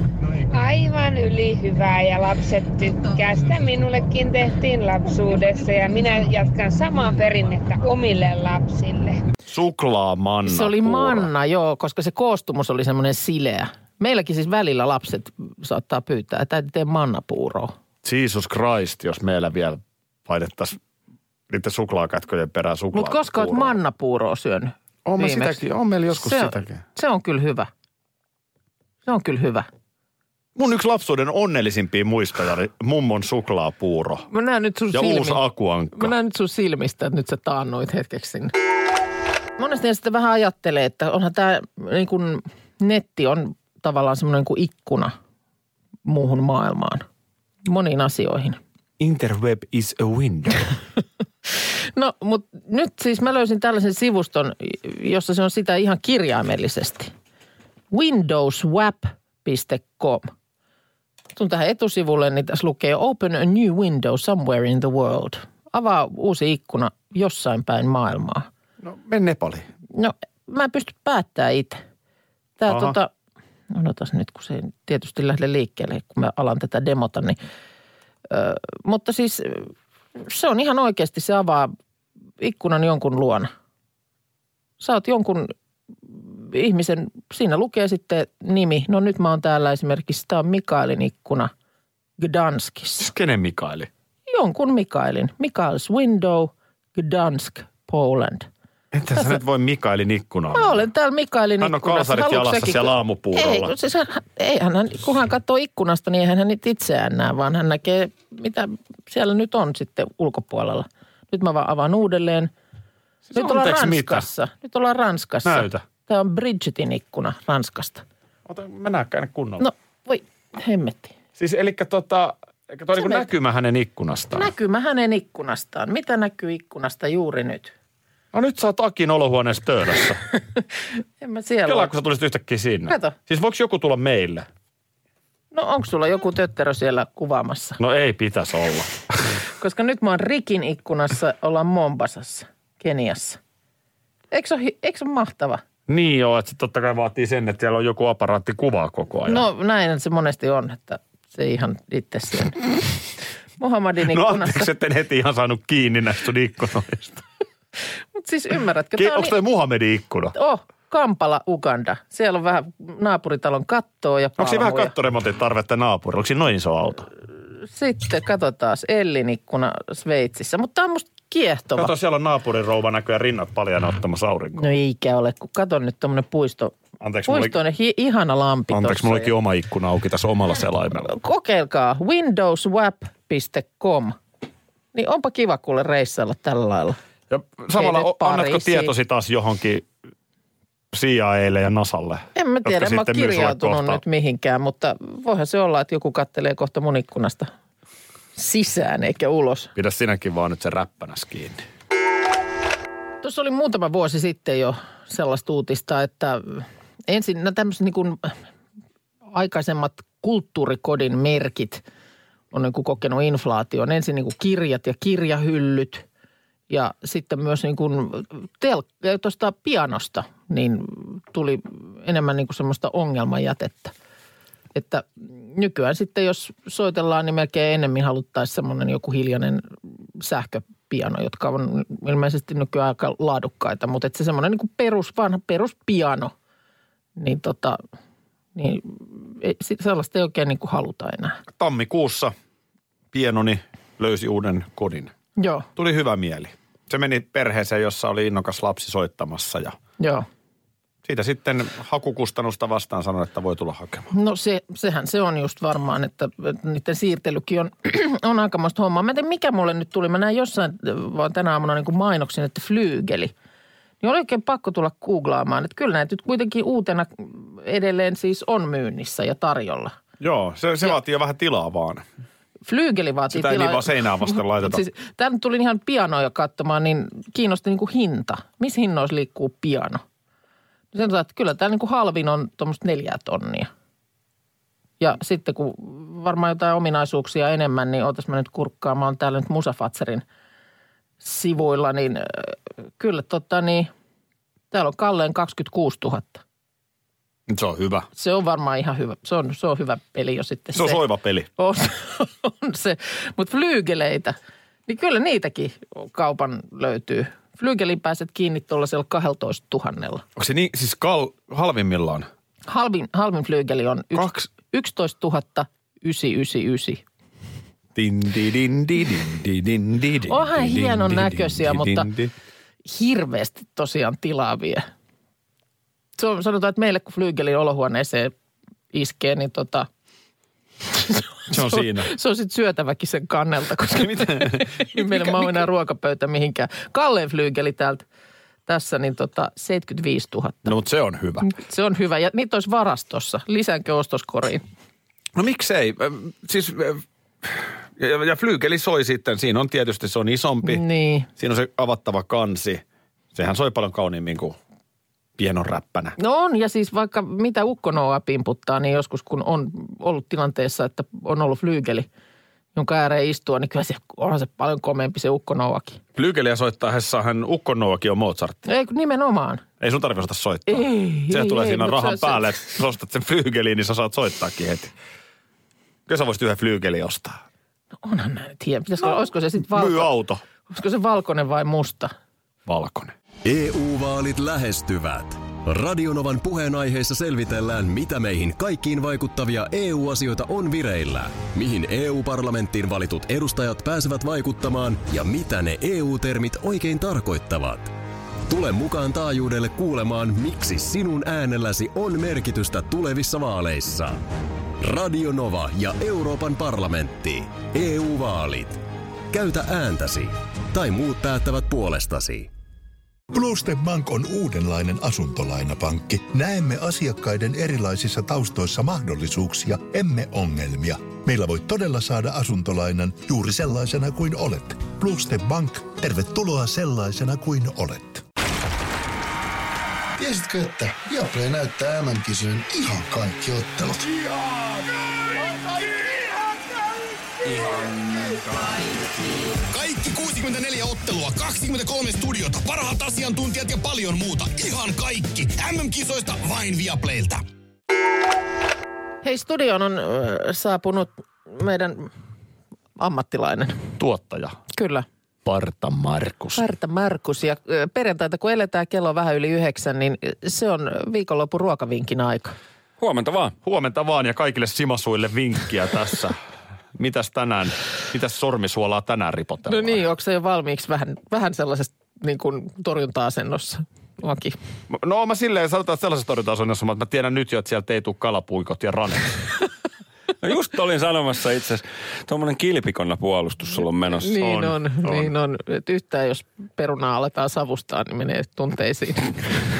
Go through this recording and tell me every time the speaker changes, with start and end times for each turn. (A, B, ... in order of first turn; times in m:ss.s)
0:00.5-0:09.2 A
0:09.5-0:11.3 B
0:10.4-0:17.7 C
0:18.0-0:20.8 B
0:21.5-0:23.8 B
0:22.9-0:27.7 C
0:25.1-0:26.8 B
0:29.1-0:29.7 C
0:30.6-0:34.3 B
0:34.3-0:35.4 C
0:34.9-0:36.1 B
0:36.0-0:38.5 C
0:39.6-0:45.1 C
0:46.1-0:47.0 C
0:47.7-0:48.6 C
0:49.0-0:50.7 B
0:52.0-0:57.1 C
0:57.9-1:00.3 C
1:01.4-1:08.5 C
1:08.8-1:09.7 B
1:09.9-1:11.8 C
1:12.6-1:13.1 C
1:12.7-1:13.0 B
1:13.7-1:17.4 C
1:18.3-1:21.7 C
1:22.4-1:23.5 C
1:24.8-1:25.5 C
1:26.1-1:31.5 C
1:32.2-1:33.1 C
1:33.0-1:33.9 B
1:34.3-1:38.5 C
1:38.9-1:40.8 B
1:40.5-1:52.5 C
1:41.6-1:43.7 B
1:53.3-1:54.3 B
1:53.3-1:58.0 C
1:55.5-1:55.8 B
1:58.5-1:59.7 B
1:59.6-2:01.2 C
2:01.4-2:04.5 B
2:03.0-2:03.3 C
2:04.3-2:07.7 C
2:08.3-2:10.2 B
2:11.2-2:11.9 C
2:11.6-2:14.5 B
2:12.9-2:13.2 C
2:15.5-2:17.8 C
2:17.8-2:19.0 B
2:19.6-2:23.4 C
2:24.3-2:25.6 C
2:25.9-2:29.5 B
2:29.3-2:32.7 C
2:33.6-2:34.7 C
2:34.1-2:37.2 B
2:38.2-2:39.4 C
2:39.0-2:40.3 B
2:40.3-2:44.9 C
2:44.4-2:47.1 B
2:47.6-2:51.9 C
2:51.8-2:54.7 B
2:54.6-2:56.8 C
2:57.0-2:57.6 B
2:57.3-2:59.3 C
2:58.7-3:01.1 B
3:01.1-3:04.2 C
3:04.9-3:07.0 C
3:07.3-3:09.9 B
3:07.8-3:08.9 C
3:10.9-3:14.0 B
3:12.4-3:17.5 C
3:18.4-3:19.7 C
3:19.8-3:21.6 B
3:23.2-3:28.4 C
3:29.3-3:31.8 C
3:32.5-3:36.0 C
3:36.7-3:43.9 C
3:44.7-3:56.3 C
3:57.2-3:57.8 C
3:58.6-4:01.4 C
4:01.5-4:02.3 B
4:03.1-4:05.1 B
4:05.4-4:05.7 C
4:05.8-4:09.8 B
4:10.0-4:10.3 C
4:11.0-4:14.1 B
4:14.1-4:23.3 C
4:24.0-4:29.9 C
4:30.2-4:32.0 B
4:32.7-4:40.0 C
4:33.3-4:34.8 B
4:40.9-4:43.7 C
4:45.0-4:50.2 C
4:51.2-4:53.9 C
4:54.7-4:56.4 C
4:57.5-4:58.1 B
4:58.2-5:01.0 C
5:00.7-5:01.5 B
5:01.6-5:04.3 C
5:04.9-5:10.2 C
5:10.4-5:12.3 B
5:12.7-5:17.0 C
5:14.1-5:14.5 B
5:18.0-5:22.3 B
5:20.3-5:22.1 C
5:22.9-5:24.8 C
5:26.2-5:28.3 C
5:28.9-5:29.9 C
5:30.9-5:38.0 C
5:31.5-5:32.1 B
5:34.0-5:35.6 B
5:38.7-5:40.7 C
5:40.7-5:41.5 B
5:41.4-5:44.6 C
5:45.4-5:50.8 B
5:50.6-5:51.3 C
5:51.4-5:52.8 B
5:53.4-5:54.6 B
5:55.4-5:56.2 B
5:56.2-6:02.1 C
6:02.8-6:06.0 C
6:06.2-6:08.7 B
6:08.7-6:09.6 C
6:09.8-6:14.9 B
6:10.7-6:12.5 C
6:16.1-6:17.4 B
6:18.0-6:20.1 C
6:19.7-6:20.4 B
6:20.7-6:22.1 C
6:22.7-6:23.1 B
6:23.4-6:37.9 D
6:38.5-6:44.2 D
6:44.8-6:48.8 D
6:49.3-6:52.5 D
6:53.3-7:08.2 E
7:10.2-7:14.3 F
7:19.6-7:27.4 G
7:29.2-7:32.1 C
7:33.0-7:33.8 C
7:34.0-7:34.6 B
7:34.7-7:35.1 C
7:35.4-7:36.6 B
7:36.6-7:42.6 C
7:43.0-7:43.6 H
7:43.6-7:46.4 B
7:47.0-7:50.0 B
7:49.7-7:54.6 C
7:54.9-7:59.4 B
8:00.4-8:04.4 H
8:04.2-8:09.4 C
8:04.3-8:05.3 B